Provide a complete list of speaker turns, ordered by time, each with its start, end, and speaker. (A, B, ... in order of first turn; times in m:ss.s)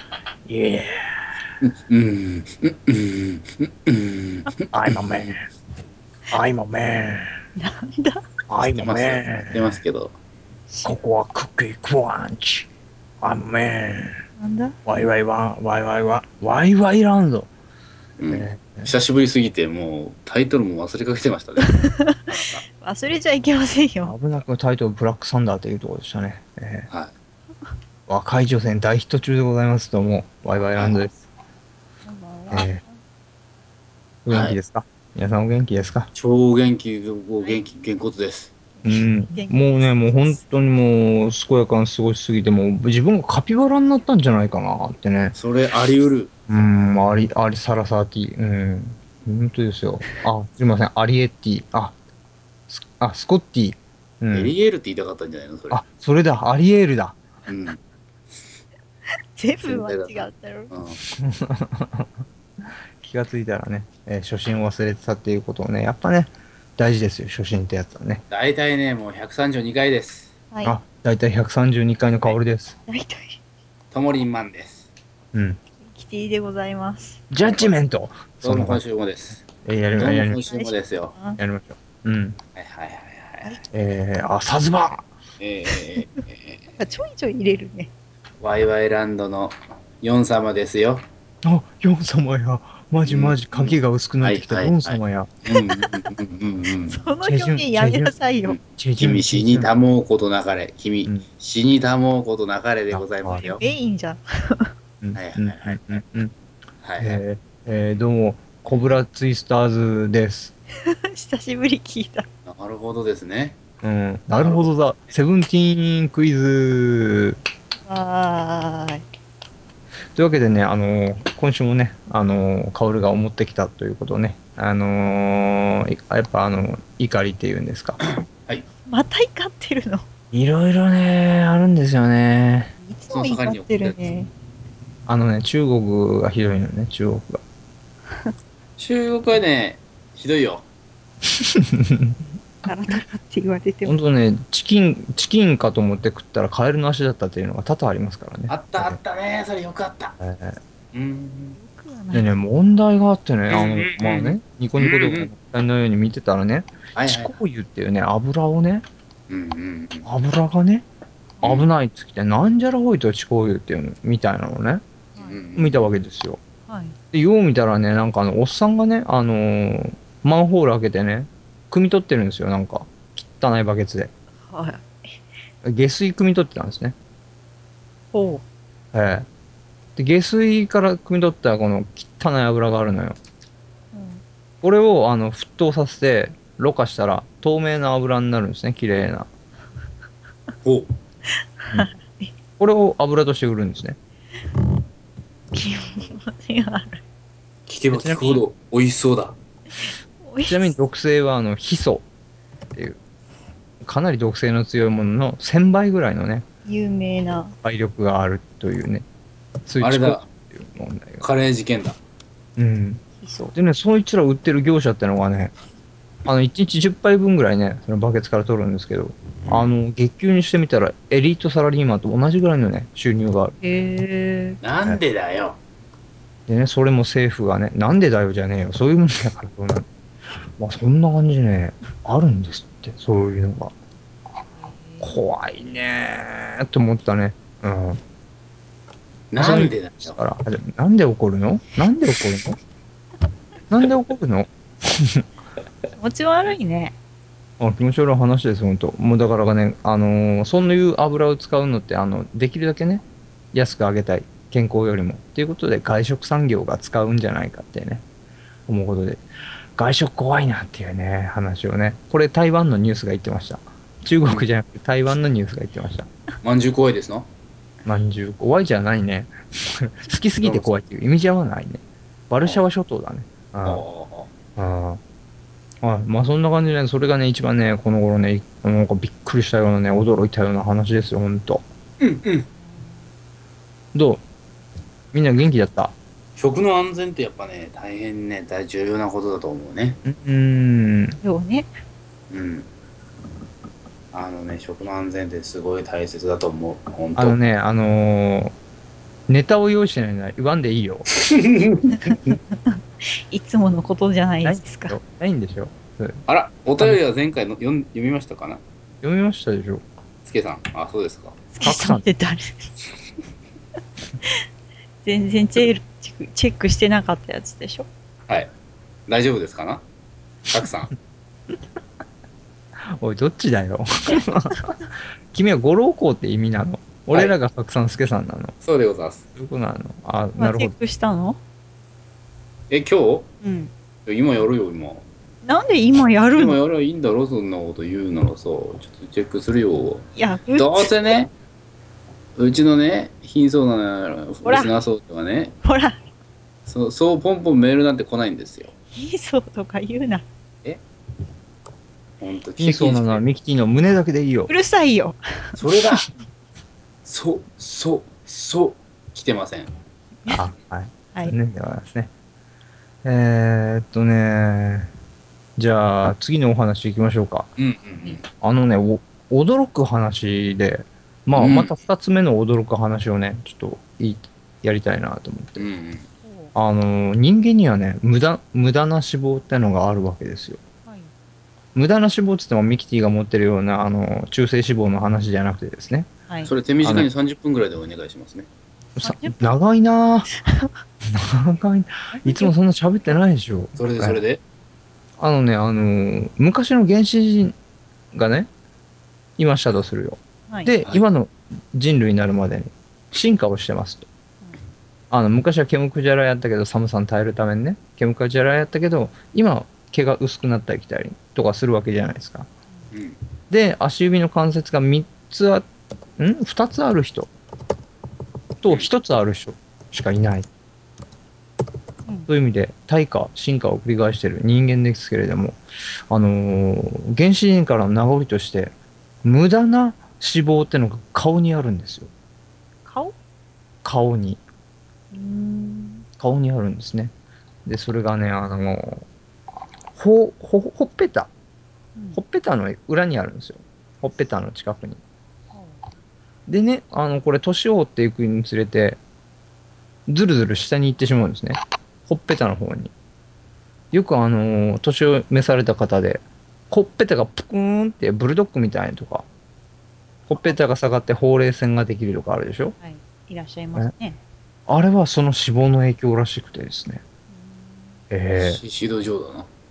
0:00.4-0:01.2 A
0:01.6-0:05.3 B
0:04.7-0:05.4 A
0:06.3-0:07.4 A
0:07.6-0:08.2 C
0:08.5-0:09.8 A
0:08.8-0:10.1 B
0:10.7-0:11.0 C
0:10.8-0:12.7 A
0:13.2-0:14.2 A
0:14.4-0:14.8 C
0:14.8-0:17.5 A
0:18.2-0:22.6 B
0:18.3-0:18.9 A
0:21.8-0:24.2 C
0:24.0-0:26.9 A
0:28.1-0:31.1 A
0:30.7-0:31.1 B
0:32.0-0:33.0 C
0:32.5-0:32.8 A
0:34.2-0:36.1 A
0:34.3-0:34.6 B
0:36.1-0:38.5 B
0:37.4-0:37.8 C
0:38.8-0:40.4 C
0:38.8-0:45.4 A
0:45.3-0:46.3 B
0:46.5-0:52.0 A
0:52.7-0:54.5 A
0:54.3-0:55.8 B
0:55.7-0:57.2 A
0:57.5-0:57.8 B
0:59.4-1:00.7 C
0:59.6-1:01.0 B
1:01.2-1:02.2 A
1:03.0-1:08.2 A
1:08.3-1:10.3 B
1:10.6-1:12.8 A
1:12.9-1:13.4 C
1:13.9-1:14.9 B
1:15.3-1:15.6 A
1:15.8-1:17.2 C
1:17.3-1:18.8 A
1:17.4-1:17.8 B
1:18.4-1:21.2 B
1:19.6-1:20.4 A
1:20.1-1:21.4 C
1:21.4-1:22.4 A
1:22.5-1:23.6 B
1:23.7-1:25.1 A
1:25.4-1:26.8 B
1:25.7-1:26.0 C
1:26.8-1:27.9 C
1:28.4-1:31.0 B
1:31.4-1:35.3 A
1:33.0-1:37.0 B
1:36.9-1:38.6 C
1:37.2-1:39.7 A
1:38.4-1:43.6 B
1:42.9-1:43.5 A
1:43.4-1:44.7 C
1:45.0-1:46.3 A
1:45.1-1:46.0 B
1:46.8-1:47.2 B
1:47.0-1:50.5 A
1:50.8-1:52.2 C
1:52.4-1:53.6 B
1:53.8-1:57.4 A
1:54.3-1:54.7 B
1:57.8-1:59.0 C
2:00.1-2:08.0 A
2:08.2-2:08.6 B
2:08.9-2:10.0 C
2:10.3-2:12.7 A
2:12.8-2:14.3 C
2:13.1-2:14.1 B
2:15.1-2:17.4 A
2:18.8-2:20.6 B
2:21.5-2:22.2 A
2:22.6-2:24.0 C
2:23.8-2:29.0 A
2:28.5-2:30.2 B
2:30.2-2:30.6 A
2:30.9-2:31.6 B
2:31.6-2:32.3 C
2:32.1-2:38.8 A
2:33.5-2:35.3 B
2:37.0-2:37.3 B
2:39.3-2:40.0 B
2:40.0-2:40.8 A
2:41.4-2:41.7 B
2:41.4-2:44.8 A
2:45.1-2:45.5 C
2:45.2-2:45.9 B
2:45.6-2:46.4 A
2:46.7-2:47.0 C
2:47.1-2:54.1 A
2:54.4-2:55.2 C
2:55.6-2:56.9 A
2:58.1-2:58.4 C
2:58.9-2:59.3 A
3:00.0-3:03.2 A
3:03.9-3:04.2 C
3:04.6-3:09.3 A
3:10.6-3:10.9 B
3:11.6-3:12.3 C
3:12.6-3:14.0 A
3:15.5-3:17.0 C
3:17.7-3:19.4 B
3:17.9-3:18.4 A
3:19.8-3:20.7 C
3:20.4-3:22.0 A
3:23.8-3:26.4 A
3:26.6-3:27.5 C
3:27.6-3:29.0 A
3:29.7-3:31.2 A
3:29.8-3:30.3 B
3:31.2-3:32.0 B
3:32.6-3:33.0 A
3:33.2-3:33.5 C
3:33.5-3:35.5 A
3:36.2-3:43.5 A
3:39.4-3:39.7 B
3:43.6-3:44.6 C
3:44.6-3:45.6 B
3:46.5-3:49.8 A
3:50.6-3:53.7 A
3:54.5-3:55.2 C
3:55.0-3:58.0 A
3:59.3-4:00.2 B
3:59.4-4:02.6 A
4:03.7-4:05.2 A
4:06.0-4:06.9 C
4:07.6-4:18.0 A
4:18.7-4:19.2 A
4:19.8-4:26.1 A
4:26.4-4:27.3 B
4:27.8-4:33.8 A
4:30.4-4:30.8 B
4:33.6-4:34.3 B
4:34.6-4:35.0 A
4:35.8-4:41.6 A
4:42.0-4:42.5 B
4:42.6-4:43.0 C
4:43.9-4:44.2 A
4:45.1-4:45.9 A
4:46.4-4:50.0 B
4:50.0-4:51.2 A
4:51.2-4:51.7 C
4:52.3-4:52.7 B
4:54.1-4:57.4 B
4:57.2-4:58.5 A
4:59.3-5:01.1 A
5:01.3-5:02.4 B
5:02.7-5:05.0 C
5:04.4-5:06.2 A
5:06.3-5:08.6 B
5:09.0-5:09.8 A
5:10.2-5:11.5 B
5:11.5-5:12.7 C
5:11.6-5:12.0 A
5:15.0-5:17.9 C
5:19.1-5:19.8 B
5:20.5-5:20.9 B
5:23.0-5:28.5 A
5:28.6-5:29.2 B
5:29.4-5:30.8 A
5:30.4-5:31.4 C
5:32.7-5:33.3 B
5:33.4-5:33.7 C
5:34.0-5:35.0 B
5:35.4-5:36.6 C
5:36.3-5:41.3 B
5:40.1-5:41.2 C
5:42.4-5:45.6 B
5:44.4-5:44.7 C
5:45.6-5:46.0 C
5:46.6-5:48.7 B
5:48.9-5:50.2 C
5:52.2-5:53.2 B
5:52.6-5:54.5 A
5:54.5-5:56.0 C
5:55.6-5:56.1 B
5:57.0-5:59.7 B
6:00.3-6:02.1 A
6:03.0-6:04.9 A
6:05.6-6:07.5 A
6:07.6-6:08.2 B
6:08.4-6:15.7 A
6:11.3-6:11.8 B
6:15.6-6:16.1 B
6:16.2-6:16.5 C
6:16.5-6:20.6 A
6:20.8-6:21.1 C
6:21.7-6:26.1 A
6:26.3-6:26.5 C
6:26.4-6:28.5 B
6:26.8-6:27.1 A
6:29.0-6:30.3 A
6:29.0-6:29.6 C
6:30.3-6:30.7 C
6:31.1-6:34.2 A
6:32.1-6:32.5 C
6:33.8-6:34.4 B
6:35.2-6:37.5 A
6:38.1-6:38.5 A
6:39.4-6:44.0 A
6:40.5-6:40.7 C
6:45.1-6:52.5 A
6:52.9-6:53.2 B
6:53.5-6:55.6 A
6:56.2-6:57.3 A
6:58.6-7:00.5 A
7:02.3-7:12.1 A
7:12.8-7:13.1 C
7:13.8-7:14.4 A
7:15.1-7:16.0 C
7:16.2-7:17.1 A
7:17.6-7:19.1 A
7:19.9-7:21.3 A
7:22.1-7:25.0 A
7:25.5-7:25.8 C
7:26.5-7:29.0 A
7:30.1-7:32.9 A
7:33.9-7:39.2 A
7:40.3-7:42.8 A
7:42.8-7:44.2 C
7:44.7-7:47.0 A
7:47.3-7:48.0 C
7:48.1-7:48.6 A
7:48.4-7:49.5 B